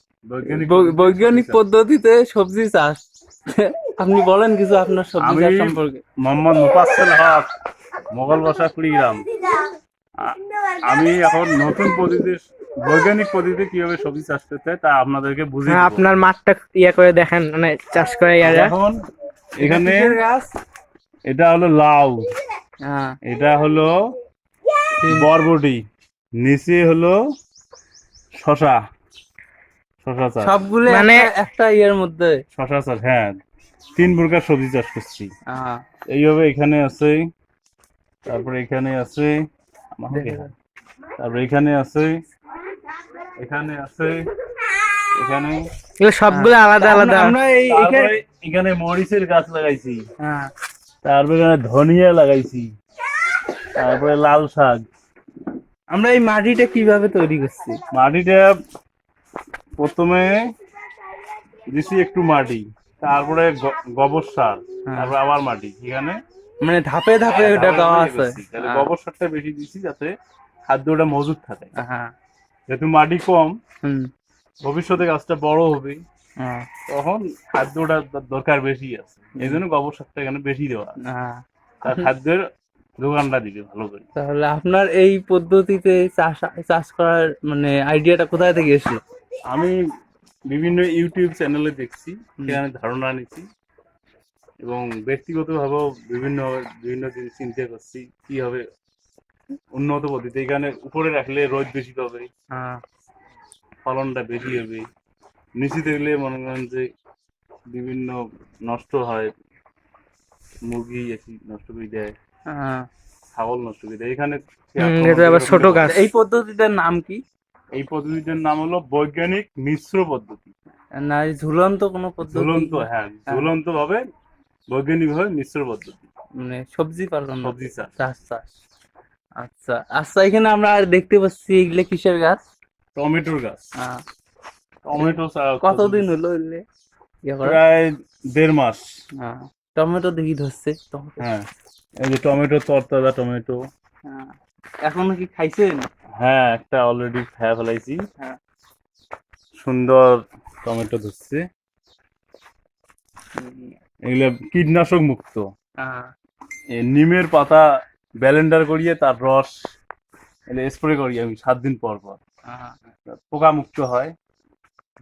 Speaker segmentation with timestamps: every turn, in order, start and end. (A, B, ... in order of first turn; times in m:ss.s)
0:00.3-0:01.6 A
0:00.5-0:06.0 B
0:05.2-0:07.5 A
0:08.1-0:09.2 A
0:10.2-0:16.1 A
0:15.7-0:18.7 C
0:18.4-0:19.0 A
0:19.6-0:20.2 A
0:19.6-0:20.5 B
0:21.3-0:22.2 A
0:22.9-0:23.1 B
0:23.2-0:23.9 A
0:25.0-0:25.3 B
0:25.1-0:25.8 A
0:26.4-0:27.2 A
0:28.4-0:28.8 A
0:30.0-0:30.5 A
0:30.4-0:32.4 B
0:30.9-0:31.3 C
0:32.5-0:33.3 A
0:34.0-0:35.3 A
0:35.5-0:35.8 B
0:36.1-0:37.2 A
0:38.3-0:39.3 A
0:40.0-0:40.5 A
0:40.1-0:40.5 B
0:41.2-0:42.1 A
0:43.4-0:44.2 A
0:45.2-0:45.6 A
0:46.0-0:47.4 C
0:46.3-0:48.1 B
0:47.7-0:50.0 A
0:50.2-0:50.5 B
0:51.0-0:52.7 A
0:53.8-0:54.8 A
0:55.9-0:57.8 B
0:57.9-0:58.5 A
0:59.8-1:00.4 A
1:01.7-1:06.2 A
1:04.9-1:05.1 B
1:06.6-1:08.9 B
1:07.2-1:10.1 A
1:10.7-1:11.7 A
1:11.8-1:12.1 B
1:12.7-1:13.6 A
1:13.8-1:14.1 B
1:14.6-1:16.0 A
1:16.4-1:16.7 B
1:16.9-1:21.0 A
1:21.1-1:21.4 B
1:21.8-1:22.4 A
1:23.0-1:24.1 A
1:24.2-1:29.0 B
1:29.5-1:29.8 A
1:30.5-1:33.4 A
1:34.6-1:38.6 A
1:39.8-1:42.3 A
1:42.6-1:42.8 B
1:43.8-1:44.8 A
1:45.6-1:46.8 A
1:47.7-1:49.3 A
1:50.7-1:52.1 A
1:52.5-1:52.8 B
1:53.4-1:55.9 A
1:54.8-1:56.0 C
1:55.8-1:57.2 B
1:57.8-2:00.5 A
2:01.0-2:03.5 B
2:02.3-2:04.0 A
2:04.7-2:06.0 A
2:06.4-2:08.5 B
2:07.4-2:07.9 A
2:09.4-2:12.4 B
2:13.0-2:13.7 A
2:14.8-2:16.1 A
2:15.0-2:16.6 B
2:17.3-2:17.6 B
2:17.4-2:18.8 A
2:19.2-2:21.3 B
2:21.2-2:21.5 A
2:22.0-2:23.6 A
2:24.1-2:24.3 B
2:24.8-2:25.9 B
2:26.2-2:28.0 A
2:29.6-2:31.4 A
2:33.4-2:33.8 B
2:34.1-2:35.4 A
2:35.8-2:36.1 B
2:36.8-2:37.6 A
2:38.2-2:39.5 A
2:40.5-2:42.2 A
2:42.5-2:42.8 B
2:43.1-2:44.1 A